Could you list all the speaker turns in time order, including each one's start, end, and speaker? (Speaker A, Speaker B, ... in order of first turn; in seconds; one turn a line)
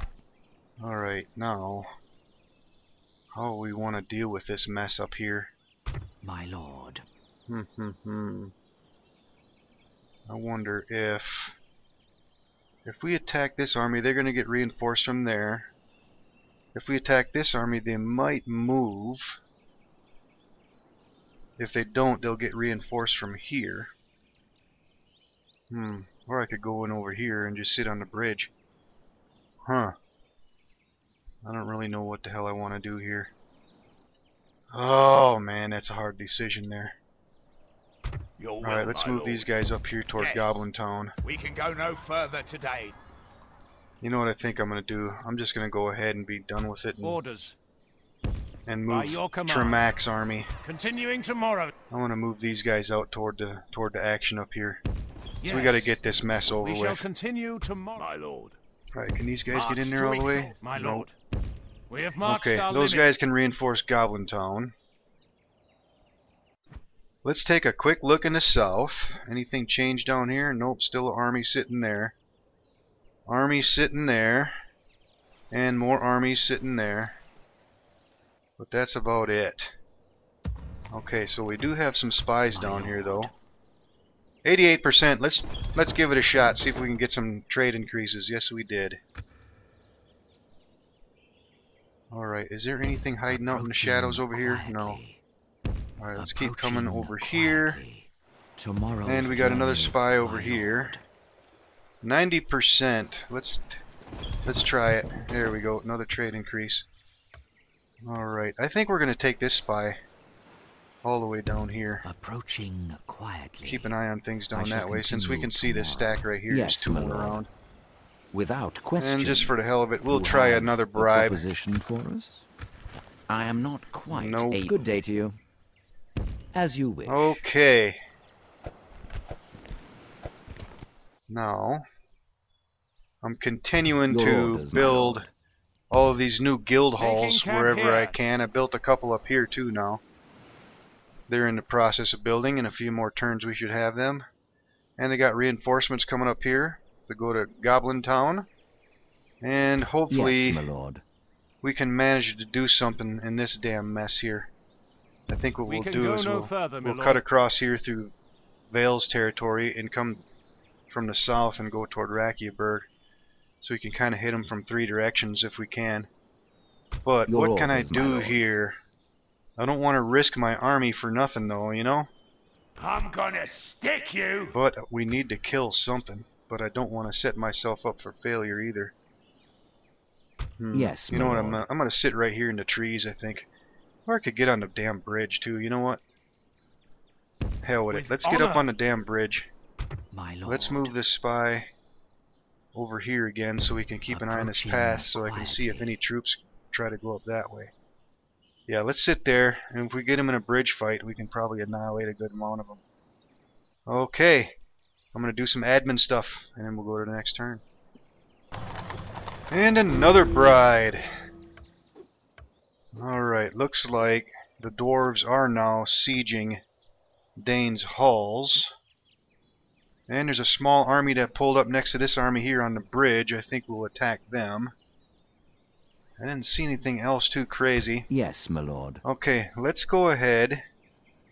Speaker A: 0.8-1.9
Speaker A: 3.4-5.5
Speaker B: 6.2-7.0
Speaker A: 7.5-8.5
Speaker A: 10.3-11.6
Speaker A: 12.8-15.7
Speaker A: 16.7-19.4
Speaker A: 21.6-23.9
Speaker A: 25.7-28.5
Speaker A: 29.7-29.9
Speaker A: 31.4-33.3
Speaker A: 34.7-36.9
Speaker C: 38.4-39.5
Speaker A: 38.6-41.1
Speaker C: 40.2-40.6
Speaker C: 41.2-43.0
Speaker A: 44.0-47.2
Speaker D: 47.0-47.6
Speaker A: 48.7-50.5
Speaker D: 48.9-49.8
Speaker D: 50.6-51.7
Speaker A: 51.9-54.8
Speaker D: 55.4-58.1
Speaker A: 55.5-57.0
Speaker C: 58.0-58.6
Speaker A: 59.0-61.1
Speaker C: 59.5-60.6
Speaker D: 60.6-61.1
Speaker D: 61.9-63.1
Speaker A: 62.2-64.7
Speaker A: 67.2-72.1
Speaker A: 73.3-74.5
Speaker A: 75.5-77.2
Speaker A: 78.6-79.7
Speaker A: 80.9-83.3
Speaker B: 82.5-83.3
Speaker A: 84.5-89.0
Speaker A: 92.1-95.0
Speaker B: 93.3-95.2
Speaker A: 96.0-97.8
Speaker B: 96.2-101.0
Speaker A: 99.1-101.0
Speaker A: 102.0-103.8
Speaker A: 104.5-106.9
Speaker A: 108.0-110.0
Speaker A: 111.0-112.0
Speaker B: 112.0-114.0
Speaker A: 113.6-117.5
Speaker B: 114.5-117.4
Speaker B: 118.3-119.5
Speaker A: 119.0-121.4
Speaker B: 120.1-122.5
Speaker B: 123.3-125.4
Speaker A: 124.1-124.9
Speaker B: 126.5-127.4
Speaker A: 127.1-128.0
Speaker A: 131.3-131.8
Speaker A: 133.2-135.3
Speaker B: 134.1-135.3
Speaker A: 135.9-140.0
Speaker D: 137.0-138.2
Speaker A: 141.3-144.3
Speaker A: 145.0-148.5
Speaker A: 149.4-150.7
Speaker B: 150.1-151.0
Speaker A: 151.6-154.5
Speaker A: 155.3-158.1
Speaker D: 155.7-157.2
Speaker A: 158.7-160.2
Speaker A: 160.9-162.9
Speaker A: 163.6-166.1
Speaker A: 167.1-168.8
Speaker B: 167.3-168.4
Speaker A: 169.6-172.1
Speaker C: 172.8-174.6
Speaker A: 174.5-178.9
Speaker A: 180.6-183.5
Speaker B: 180.7-181.6
Speaker A: 184.1-186.0
Speaker A: 187.6-189.5
Speaker D: 187.9-188.7
Speaker B: 190.1-191.0
Speaker A: 190.5-191.7
Speaker A: 192.7-197.7
Speaker B: 194.1-196.0
Speaker A: 198.7-202.8
Speaker A: 203.9-204.6
Speaker A: 205.1-207.6
Speaker A: 209.5-211.1
Speaker A: 212.9-216.6
Speaker A: 217.4-218.7
Speaker A: 220.1-224.7
Speaker A: 226.2-228.1
Speaker B: 228.1-229.0
Speaker A: 229.0-230.6